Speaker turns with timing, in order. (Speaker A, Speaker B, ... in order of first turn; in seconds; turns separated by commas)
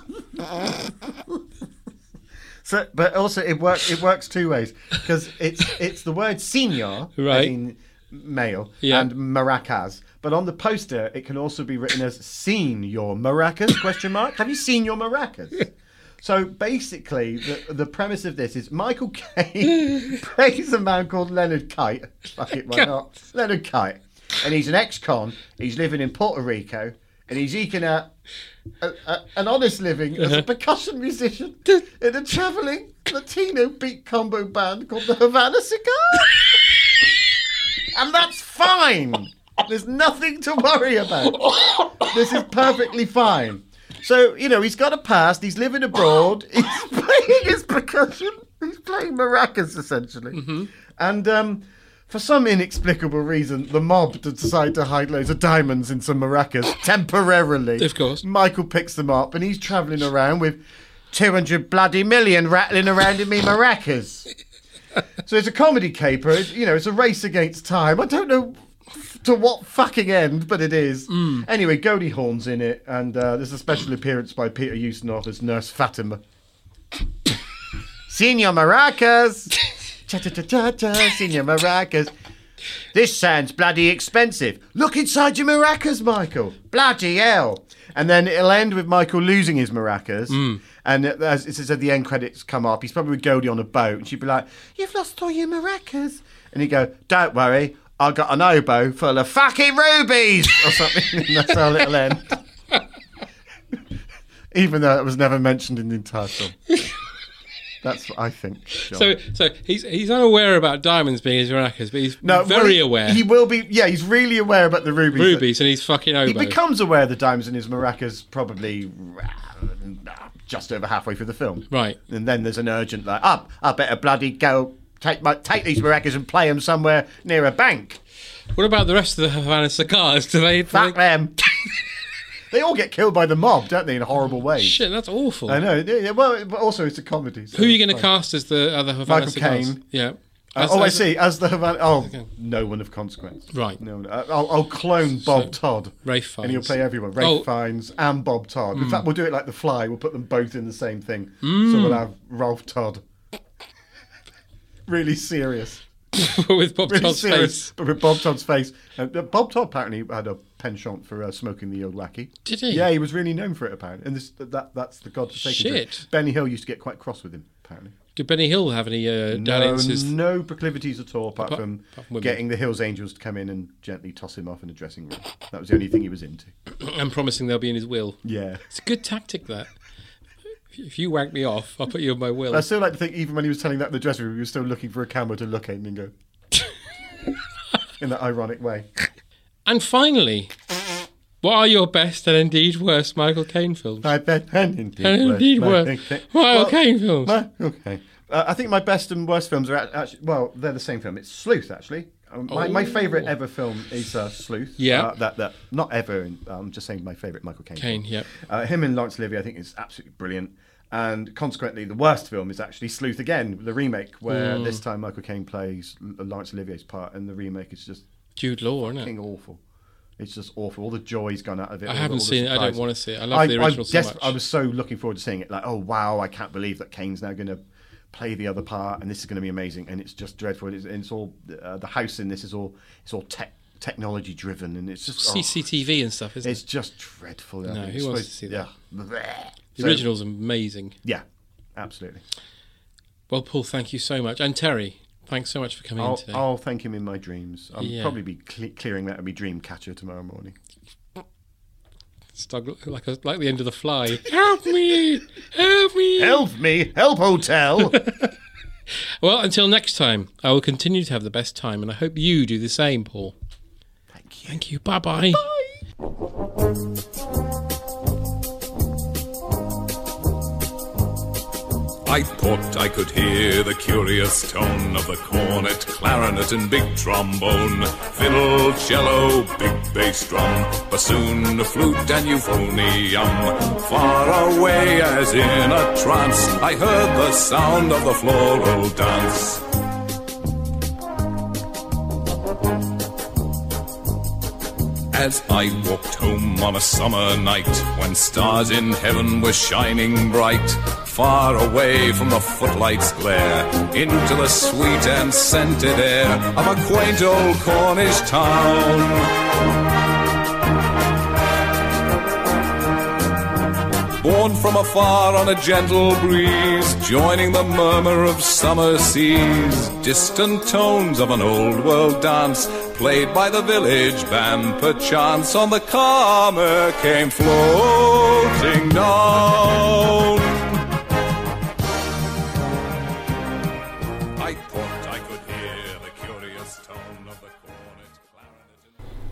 Speaker A: 2.6-28.1, Speaker B: 7.2-7.5, Speaker B: 8.8-9.1, Speaker A: 28.8-36.5, Speaker A: 37.9-50.4, Speaker B: 50.3-50.7, Speaker A: 51.0-64.3, Speaker B: 57.8-58.2, Speaker A: 65.2-76.2, Speaker B: 71.1-71.4, Speaker A: 78.1-79.5, Speaker A: 80.1-82.1, Speaker A: 82.9-102.4, Speaker B: 90.3-90.6, Speaker A: 104.5-106.6, Speaker A: 107.8-109.1, Speaker B: 108.9-113.2, Speaker A: 112.2-115.5, Speaker B: 115.1-116.6, Speaker A: 116.2-128.0, Speaker B: 121.7-122.0, Speaker B: 128.5-131.0, Speaker A: 130.7-131.5, Speaker A: 132.5-134.8, Speaker B: 134.2-135.6, Speaker A: 135.5-138.1, Speaker B: 137.5-141.1, Speaker A: 139.1-139.8, Speaker A: 140.6-153.0, Speaker B: 143.5-143.8, Speaker B: 145.2-147.5, Speaker B: 148.8-149.1, Speaker B: 151.4-152.0, Speaker A: 154.9-155.8, Speaker B: 156.1-157.7, Speaker A: 156.9-167.9, Speaker B: 162.4-162.9, Speaker B: 165.4-166.1, Speaker B: 168.2-170.2, Speaker A: 169.3-176.5, Speaker B: 171.4-172.4, Speaker B: 176.7-179.7, Speaker A: 178.2-178.6, Speaker B: 180.7-182.7, Speaker A: 182.5-186.1, Speaker A: 188.0-188.9, Speaker B: 189.7-190.5, Speaker B: 191.4-194.1, Speaker A: 194.0-218.0, Speaker B: 195.0-197.3, Speaker B: 202.5-203.3, Speaker B: 204.8-205.1, Speaker B: 207.8-208.3, Speaker B: 214.3-214.8, Speaker B: 218.4-219.1, Speaker A: 218.9-219.6, Speaker A: 220.2-227.6, Speaker B: 221.9-224.4, Speaker A: 228.1-235.7, Speaker B: 235.2-236.6, Speaker A: 236.4-240.1, Speaker B: 237.7-238.7, Speaker B: 239.8-241.0, Speaker A: 241.8-242.2, Speaker B: 243.3-246.4, Speaker A: 246.0-250.6, Speaker B: 247.8-248.2, Speaker B: 252.3-256.4, Speaker A: 256.2-258.0, Speaker B: 257.9-258.3, Speaker B: 259.2-263.4, Speaker A: 264.1-264.6, Speaker B: 264.5-265.4, Speaker A: 265.2-265.7, Speaker C: 272.1-289.6, Speaker C: 295.1-309.3, Speaker C: 314.2-330.8, Speaker C: 334.4-338.9